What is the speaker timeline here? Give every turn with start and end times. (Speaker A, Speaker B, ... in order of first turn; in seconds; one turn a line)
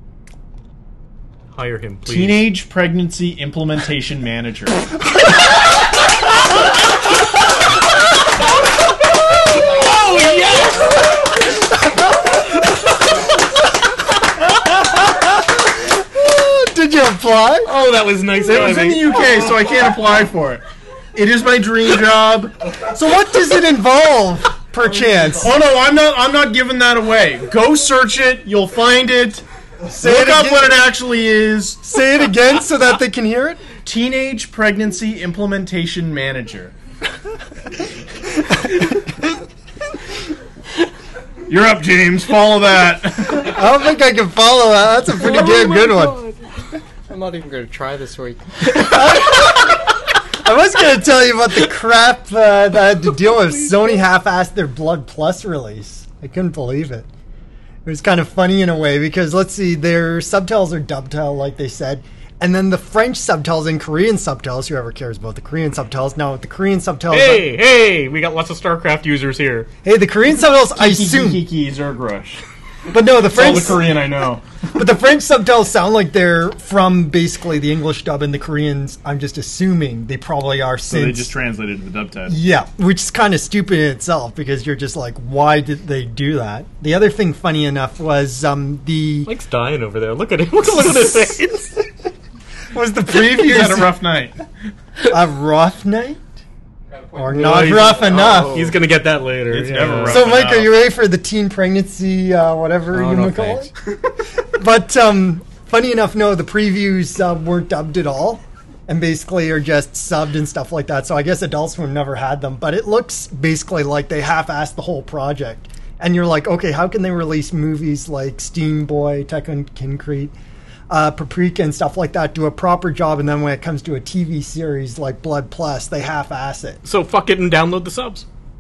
Speaker A: 1.5-2.4
Speaker B: 2.1-4.8
Speaker A: 9.5-11.2
Speaker C: 15.8-17.7
Speaker A: 17.6-19.5
Speaker B: 18.4-20.6
Speaker B: 21.1-22.5
Speaker C: 22.9-25.6
Speaker B: 25.4-29.4
Speaker C: 29.9-30.9
Speaker B: 30.0-31.8
Speaker C: 31.8-33.6
Speaker B: 33.8-36.7
Speaker B: 41.5-43.6
Speaker C: 43.3-46.2
Speaker A: 45.1-46.5
Speaker D: 47.1-48.4
Speaker C: 48.7-49.9
Speaker C: 50.4-57.1
Speaker A: 53.3-54.0
Speaker C: 57.9-67.5
Speaker A: 67.1-69.7
Speaker C: 69.8-71.4
Speaker B: 70.7-72.4
Speaker C: 72.9-74.0
Speaker B: 73.2-74.4
Speaker C: 74.7-81.4
Speaker B: 80.9-82.4
Speaker C: 82.3-89.3
Speaker A: 89.3-91.9
Speaker C: 92.7-94.0
Speaker B: 93.1-94.4
Speaker C: 95.0-96.2
Speaker C: 97.1-98.7
Speaker A: 97.3-100.3
Speaker D: 97.7-98.8
Speaker B: 99.5-100.8
Speaker C: 100.1-103.7
Speaker D: 102.9-103.7
Speaker C: 104.5-120.3
Speaker C: 120.9-126.8
Speaker A: 126.8-128.3